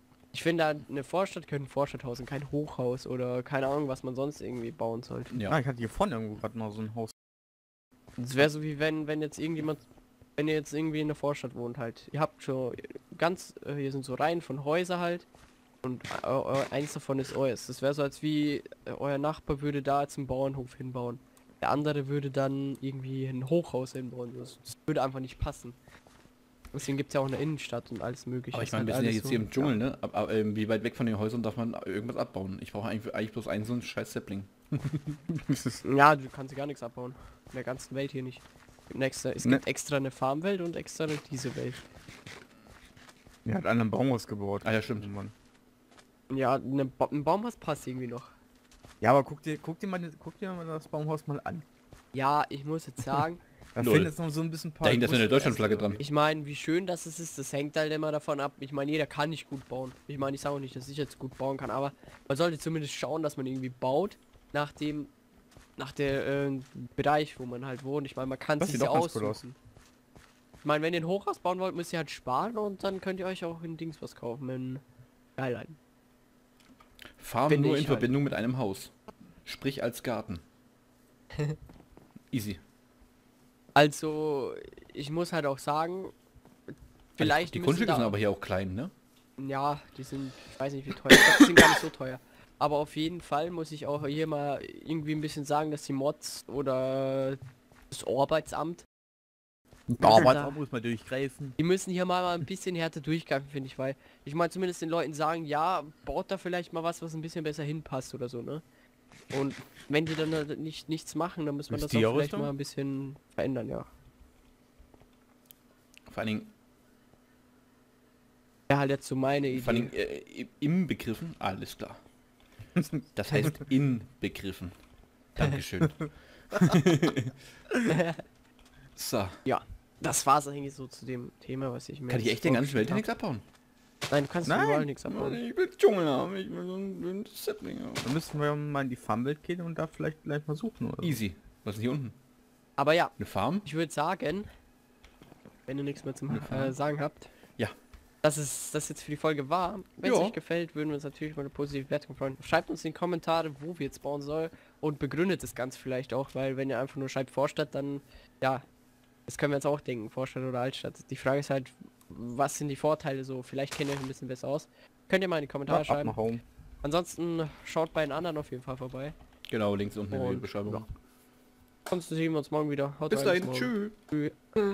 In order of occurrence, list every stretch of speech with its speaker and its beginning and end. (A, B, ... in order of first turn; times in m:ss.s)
0:00.3-0:05.3 A
0:05.5-0:07.1 B
0:08.2-0:09.8 A
0:10.4-0:15.2 A
0:15.8-0:25.8 A
0:26.7-0:29.8 A
0:28.5-0:35.2 C
0:35.3-0:35.8 B
0:35.8-0:41.8 A
0:43.4-0:45.3 B
0:44.6-0:45.1 C
0:46.3-0:48.3 A
0:49.0-0:51.6 B
0:52.1-0:53.4 A
0:53.7-0:56.0 B
0:53.8-0:54.1 C
0:54.8-0:56.0 C
0:56.0-1:05.1 A
1:05.8-1:09.6 A
1:08.6-1:09.4 B
1:10.6-1:14.8 A
1:15.4-1:15.8 A
1:17.2-1:20.4 C
1:17.5-1:18.1 A
1:22.3-1:22.6 C
1:23.7-1:26.1 A
1:27.2-1:28.2 A
1:27.2-1:28.9 C
1:29.4-1:37.4 A
1:37.9-1:38.8 A
1:39.9-1:41.6 B
1:40.0-1:40.6 A
1:41.6-1:48.6 A
1:49.3-1:53.9 A
1:51.7-1:52.5 B
1:56.1-1:56.5 C
1:58.7-1:59.9 A
1:59.5-2:02.0 C
2:03.1-2:04.8 C
2:05.3-2:07.3 C
2:07.9-2:08.2 A
2:09.0-2:09.4 C
2:09.4-2:13.0 A
2:12.1-2:13.4 C
2:14.1-2:15.4 A
2:14.4-2:14.9 B
2:15.1-2:18.1 C
2:18.0-2:21.2 B
2:21.0-2:22.1 C
2:22.8-2:24.5 A
2:23.2-2:23.7 C
2:25.7-2:27.3 A
2:28.2-2:38.6 A
2:30.0-2:30.4 C
2:39.3-2:46.2 A
2:45.7-2:46.4 B
2:46.8-2:49.1 A
2:49.5-2:50.8 C
2:50.1-2:50.8 A
2:51.9-2:54.6 A
2:53.1-2:54.0 C